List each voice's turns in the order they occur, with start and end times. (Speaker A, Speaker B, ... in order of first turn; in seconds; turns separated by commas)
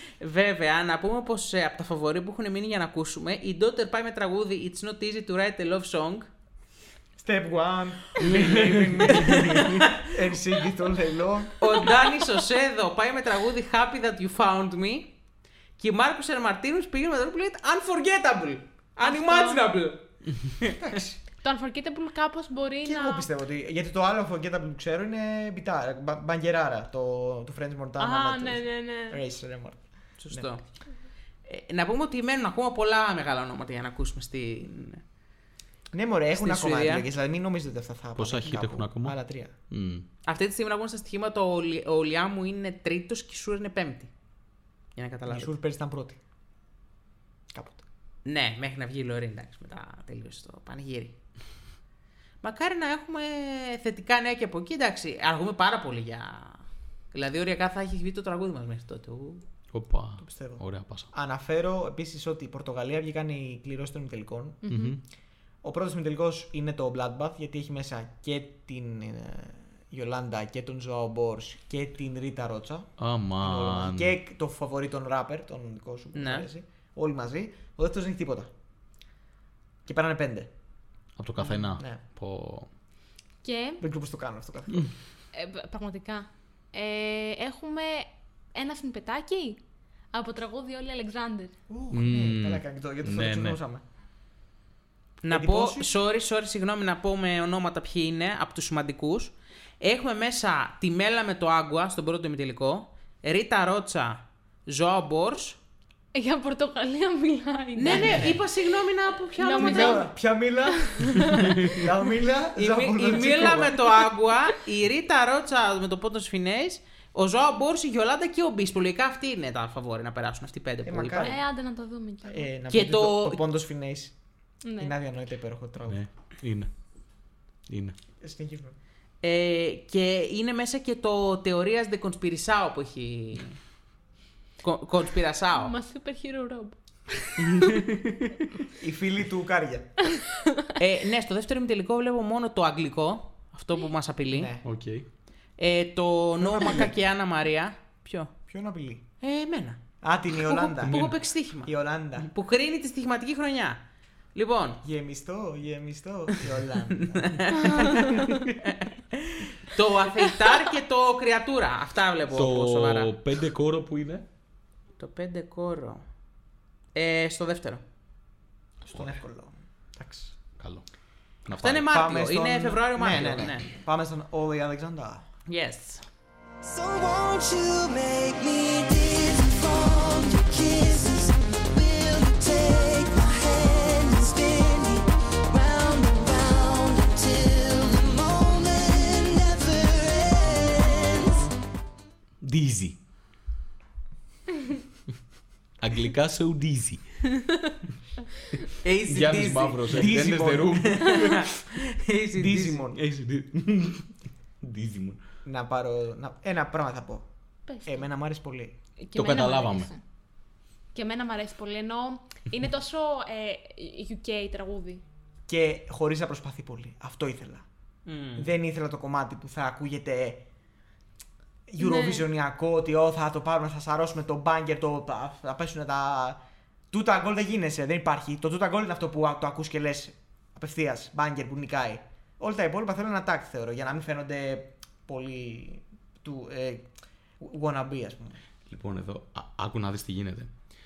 Speaker A: 0.2-6.3, Speaker B: 7.2-11.9, Speaker C: 8.2-9.8, Speaker A: 9.1-10.2, Speaker A: 11.6-15.1, Speaker A: 15.8-21.0, Speaker D: 19.0-19.7, Speaker B: 20.8-21.2, Speaker D: 21.4-23.3, Speaker B: 22.8-30.5, Speaker D: 28.0-29.2, Speaker A: 30.2-30.7, Speaker A: 31.5-35.0, Speaker B: 35.9-39.5, Speaker A: 36.3-37.0, Speaker C: 38.1-39.2, Speaker C: 39.7-40.0, Speaker A: 40.2-44.1, Speaker A: 44.9-45.5, Speaker B: 45.3-46.2, Speaker B: 47.5-47.8, Speaker A: 48.2-51.2, Speaker A: 52.4-59.4, Speaker C: 59.7-61.1, Speaker B: 60.2-64.6, Speaker D: 64.6-65.0, Speaker C: 64.7-65.0, Speaker B: 65.6-78.5, Speaker C: 73.0-74.1, Speaker A: 76.1-76.5, Speaker B: 79.8-80.5, Speaker C: 81.2-82.7, Speaker B: 81.4-82.0, Speaker D: 83.4-83.8, Speaker B: 83.8-84.9, Speaker D: 85.3-89.6, Speaker D: 90.1-91.5, Speaker B: 91.7-93.8, Speaker C: 91.9-93.6, Speaker A: 95.2-105.6, Speaker B: 95.3-95.9, Speaker D: 106.1-108.4, Speaker A: 107.8-110.0, Speaker B: 107.9-108.4, Speaker D: 109.4-110.1, Speaker B: 109.5-113.8, Speaker D: 110.8-111.8, Speaker A: 112.5-121.3, Speaker D: 113.0-114.1, Speaker B: 120.8-121.4, Speaker D: 121.2-122.5, Speaker B: 122.2-124.2, Speaker A: 122.7-123.4, Speaker D: 124.6-124.9, Speaker B: 124.8-126.0, Speaker C: 125.9-126.7, Speaker C: 127.7-128.0, Speaker B: 128.2-128.8, Speaker A: 129.2-133.6, Speaker A: 134.6-135.7, Speaker D: 135.5-137.7, Speaker C: 137.4-138.4, Speaker B: 138.8-140.0, Speaker A: 140.8-144.5, Speaker B: 144.3-144.7, Speaker C: 144.6-145.1, Speaker A: 145.6-148.3, Speaker B: 146.4-146.9, Speaker B: 148.5-149.0, Speaker A: 149.2-149.8, Speaker B: 150.0-152.3, Speaker A: 150.4-153.8, Speaker C: 150.8-151.1, Speaker A: 154.3-154.8, Speaker B: 154.8-158.1, Speaker A: 156.9-163.2, Speaker C: 162.3-164.2, Speaker A: 165.0-166.0, Speaker A: 166.9-167.8, Speaker B: 168.8-170.3, Speaker C: 170.1-170.9, Speaker C: 171.4-171.8, Speaker A: 171.6-173.7, Speaker B: 171.8-175.2, Speaker A: 175.5-176.1, Speaker E: 176.6-191.4, Speaker C: 192.4-193.0, Speaker C: 195.8-197.3, Speaker A: 198.8-200.2, Speaker C: 199.1-201.4, Speaker B: 199.9-201.1, Speaker A: 200.8-202.8, Speaker D: 201.0-201.3, Speaker B: 202.3-203.0, Speaker C: 202.9-205.2, Speaker B: 205.4-207.3, Speaker D: 207.7-208.1, Speaker B: 207.8-208.8, Speaker D: 209.0-210.0, Speaker C: 209.2-209.9, Speaker D: 210.9-215.0, Speaker B: 215.5-217.7, Speaker A: 218.1-218.5, Speaker B: 218.3-220.4, Speaker B: 221.7-226.4, Speaker D: 221.8-222.2, Speaker B: 226.9-236.9, Speaker B: 237.4-238.4, Speaker C: 238.7-240.5